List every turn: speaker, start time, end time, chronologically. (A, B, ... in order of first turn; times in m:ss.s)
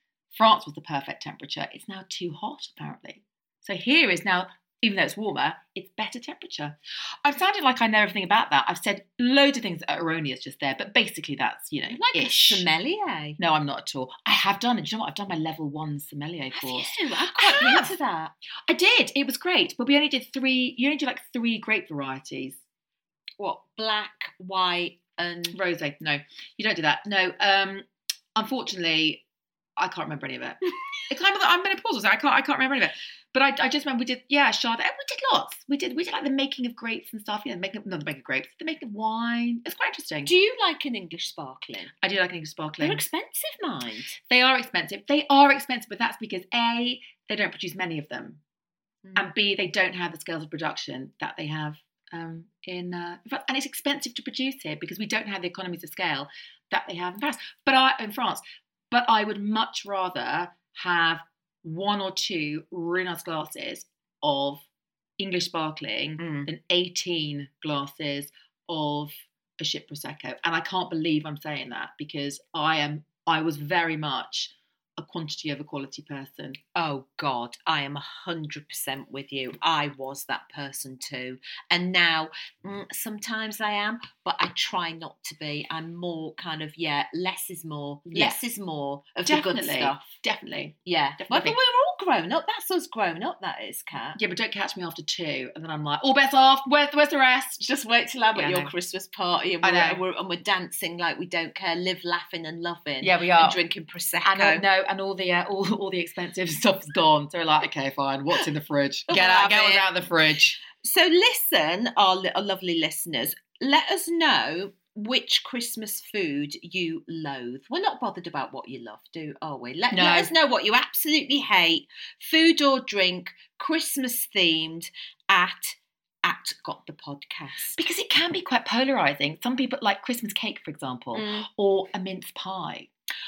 0:00.3-0:12.6 A
0:11.9-0:13.4 B
0:13.4-0:17.9 A
0:16.5-0:18.3 B
0:18.7-0:22.6 A
0:23.4-0:25.6 B
0:25.5-0:29.2 A
0:29.8-0:40.3 A
0:40.2-0:41.9 B
0:42.0-0:43.0 A
0:42.8-0:44.2 B
0:44.3-0:48.4 A
0:49.1-1:04.6 A
1:05.2-1:16.6 A
1:06.2-1:06.5 B
1:16.7-1:30.2 B
1:28.1-1:28.4 A
1:29.2-1:31.6 A
1:30.9-1:34.2 B
1:34.1-1:37.6 A
1:37.6-1:44.6 B
1:38.3-1:38.7 A
1:39.6-1:40.0 A
1:43.0-1:43.6 A
1:44.2-1:50.6 A
1:49.1-1:49.8 B
1:50.7-2:07.8 B
1:59.9-2:00.3 A
2:07.8-2:12.9 A
2:11.1-2:11.5 B